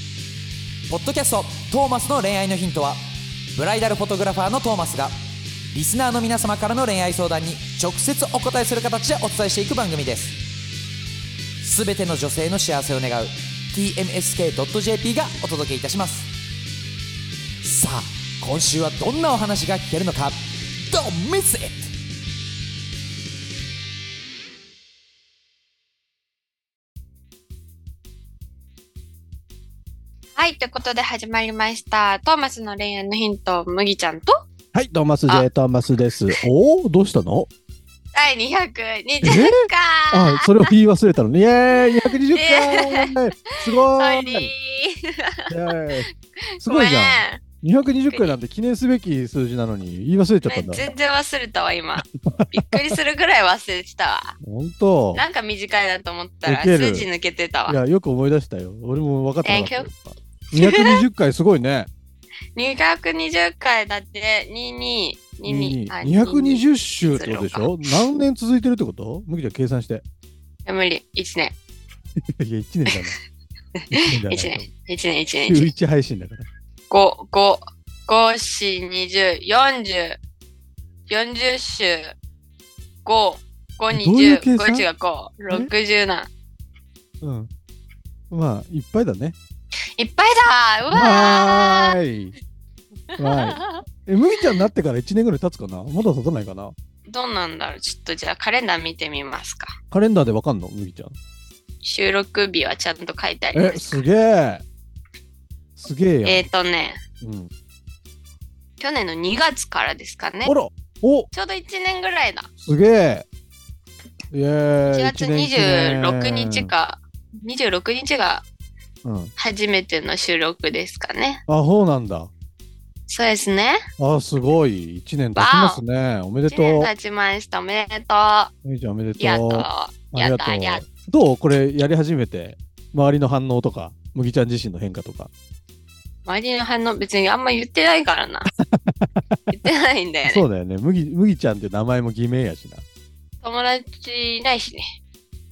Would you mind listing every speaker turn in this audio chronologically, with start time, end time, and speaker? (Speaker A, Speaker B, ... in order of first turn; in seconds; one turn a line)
Speaker A: 0.9-3.0
Speaker A: 3.5-5.1
Speaker A: 5.7-10.4
Speaker A: 11.6-16.3
Speaker A: 17.6-20.4
Speaker A: 20.9-21.8
Speaker B: 30.4-34.3
Speaker C: 34.7-37.5
Speaker B: 38.1-40.7
Speaker C: 39.2-39.6
Speaker C: 40.1-44.5
Speaker B: 41.9-43.1
Speaker B: 43.7-45.5
Speaker C: 45.5-50.9
Speaker B: 46.4-47.4
Speaker B: 48.1-48.4
Speaker B: 50.5-54.4
Speaker C: 52.0-52.8
Speaker C: 54.4-55.2
Speaker B: 55.1-57.8
Speaker C: 56.5-57.1
Speaker C: 57.7-61.9
Speaker B: 59.4-59.9
Speaker B: 60.5-61.0
Speaker B: 62.5-67.8
Speaker C: 65.5-70.0
Speaker B: 70.7-71.5
Speaker C: 72.4-73.2
Speaker B: 73.8-75.7
Speaker C: 73.9-74.7
Speaker C: 75.5-76.5
Speaker B: 76.9-80.2
Speaker B: 81.1-82.1
Speaker B: 83.0-86.3
Speaker C: 83.9-84.9
Speaker C: 87.2-87.5
Speaker C: 88.3-89.4
Speaker B: 90.0-92.0
Speaker C: 90.9-92.4
Speaker C: 93.2-96.7
Speaker B: 93.2-93.8
Speaker B: 97.1-99.8
Speaker C: 99.9-101.2
Speaker B: 101.8-104.1
Speaker C: 103.5-104.6
Speaker C: 105.8-106.5
Speaker B: 106.2-107.0
Speaker C: 107.2-107.5
Speaker B: 108.8-110.5
Speaker C: 110.4-111.3
Speaker B: 111.3-112.5
Speaker C: 112.7-113.3
Speaker C: 114.3-116.7
Speaker B: 114.9-118.4
Speaker C: 119.0-119.3
Speaker B: 119.4-121.4
Speaker C: 121.5-122.3
Speaker B: 123.1-123.8
Speaker C: 124.0-126.9
Speaker B: 125.4-125.8
Speaker B: 126.5-128.5
Speaker C: 128.6-135.3
Speaker B: 129.2-130.8
Speaker B: 136.3-138.5
Speaker C: 138.5-139.2
Speaker B: 139.5-140.4
Speaker C: 140.2-142.8
Speaker B: 143.4-144.9